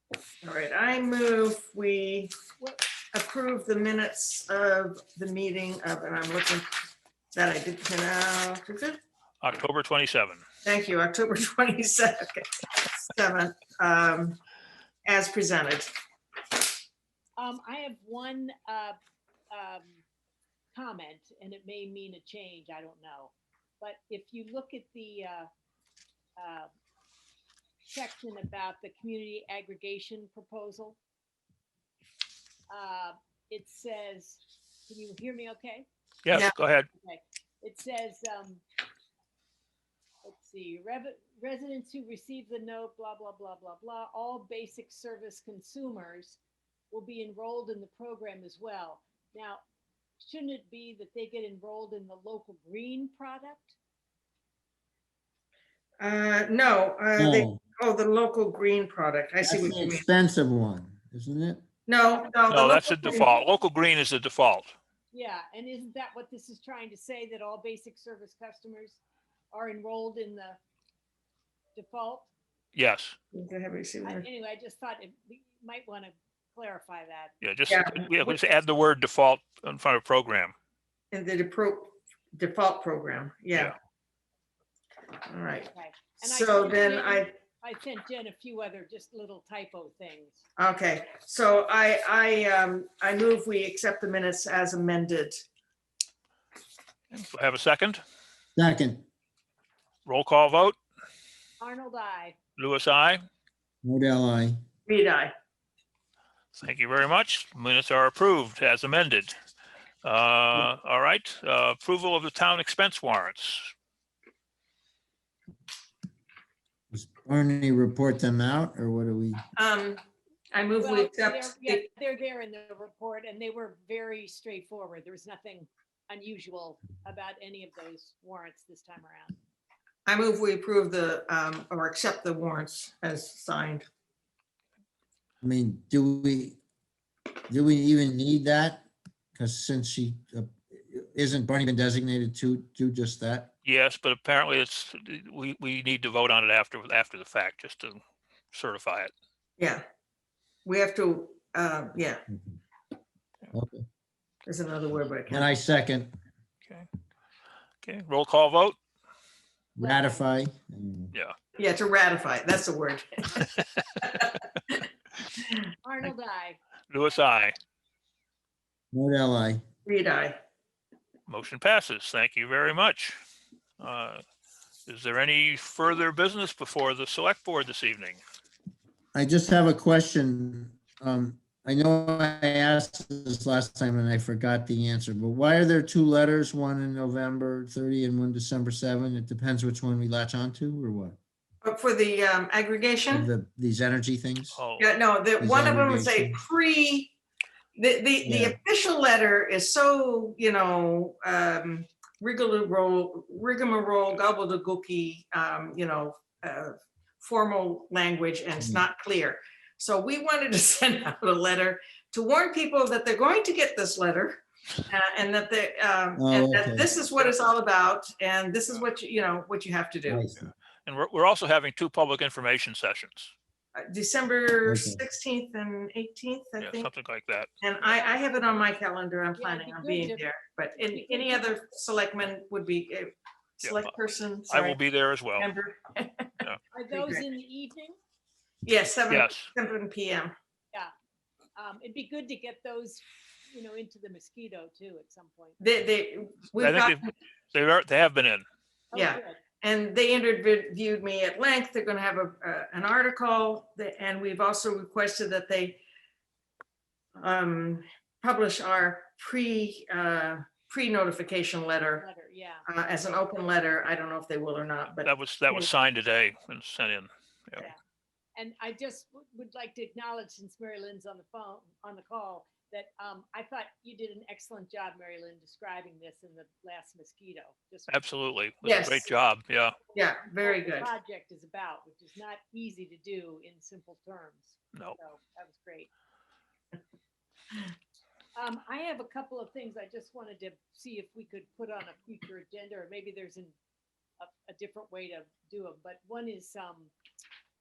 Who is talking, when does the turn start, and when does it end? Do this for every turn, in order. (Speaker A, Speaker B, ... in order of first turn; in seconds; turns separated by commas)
Speaker A: 0.4-2.3, Speaker A: 3.1-6.7, Speaker A: 7.3-9.0, Speaker B: 9.4-10.4, Speaker A: 10.6-14.4, Speaker A: 15.1-15.9, Speaker C: 17.4-19.0, Speaker C: 19.5-20.0, Speaker C: 20.7-25.5, Speaker C: 26.4-26.7, Speaker C: 27.9-31.0, Speaker C: 32.7-35.9, Speaker B: 36.2-36.9, Speaker A: 36.3-36.5, Speaker C: 36.9-38.6, Speaker C: 40.2-46.4, Speaker C: 46.9-49.6, Speaker C: 50.2-53.8, Speaker A: 56.0-60.0, Speaker D: 57.2-57.6, Speaker D: 59.5-61.6, Speaker A: 61.9-63.3, Speaker B: 62.5-64.8, Speaker C: 65.1-69.0, Speaker C: 69.5-70.6, Speaker C: 71.8-72.3, Speaker B: 72.7-73.2, Speaker A: 73.3-74.3, Speaker C: 74.0-77.3, Speaker B: 77.4-80.5, Speaker A: 77.7-78.3, Speaker A: 81.1-83.8, Speaker A: 85.3-87.3, Speaker C: 85.7-90.4, Speaker A: 90.6-95.4, Speaker B: 97.1-98.0, Speaker D: 98.6-99.0, Speaker B: 100.1-100.8, Speaker C: 101.6-102.4, Speaker B: 102.6-103.2, Speaker D: 103.8-104.6, Speaker A: 104.9-105.3, Speaker B: 106.5-109.3, Speaker B: 110.0-113.7, Speaker D: 116.9-119.4, Speaker A: 119.6-120.0, Speaker A: 120.5-121.8, Speaker C: 120.8-129.3, Speaker A: 130.1-133.8, Speaker D: 135.4-136.6, Speaker D: 137.5-143.5, Speaker B: 143.6-148.0, Speaker B: 148.5-149.1, Speaker A: 150.6-152.2, Speaker D: 152.3-152.6, Speaker D: 153.5-153.8, Speaker A: 154.4-155.5, Speaker D: 155.3-156.1, Speaker B: 157.8-158.8, Speaker D: 159.8-161.1, Speaker C: 159.8-160.2, Speaker A: 161.6-163.4, Speaker A: 164.0-164.8, Speaker C: 165.8-166.6, Speaker B: 166.9-167.5, Speaker D: 168.9-169.6, Speaker A: 169.8-170.3, Speaker B: 171.3-173.2, Speaker B: 173.8-174.2, Speaker B: 174.8-178.2, Speaker D: 179.1-191.2, Speaker A: 191.6-193.3, Speaker D: 193.1-194.6, Speaker B: 194.5-195.0, Speaker A: 194.8-197.1, Speaker D: 195.4-196.4, Speaker A: 197.8-220.2, Speaker D: 198.2-198.6, Speaker D: 216.2-216.8, Speaker D: 220.1-220.5, Speaker B: 220.8-223.3, Speaker A: 223.8-226.9, Speaker D: 224.6-225.0, Speaker B: 226.6-227.5, Speaker A: 227.6-234.8, Speaker C: 227.8-228.2, Speaker C: 229.4-230.2, Speaker C: 230.8-231.5, Speaker B: 233.6-233.9, Speaker B: 234.5-235.5, Speaker A: 235.4-236.3, Speaker C: 236.7-237.9, Speaker A: 236.9-237.2, Speaker A: 238.6-240.3, Speaker B: 239.1-239.5, Speaker C: 241.6-245.6, Speaker A: 245.6-247.1, Speaker B: 246.5-247.0, Speaker B: 247.5-248.4, Speaker C: 248.9-249.4, Speaker A: 248.9-255.8, Speaker A: 257.2-262.1, Speaker C: 262.0-262.6, Speaker A: 262.7-265.7, Speaker B: 265.0-267.7, Speaker C: 268.4-278.0, Speaker B: 277.9-279.8, Speaker A: 278.6-279.1, Speaker A: 279.9-280.9, Speaker C: 280.4-285.9, Speaker C: 288.4-293.5, Speaker C: 294.2-296.9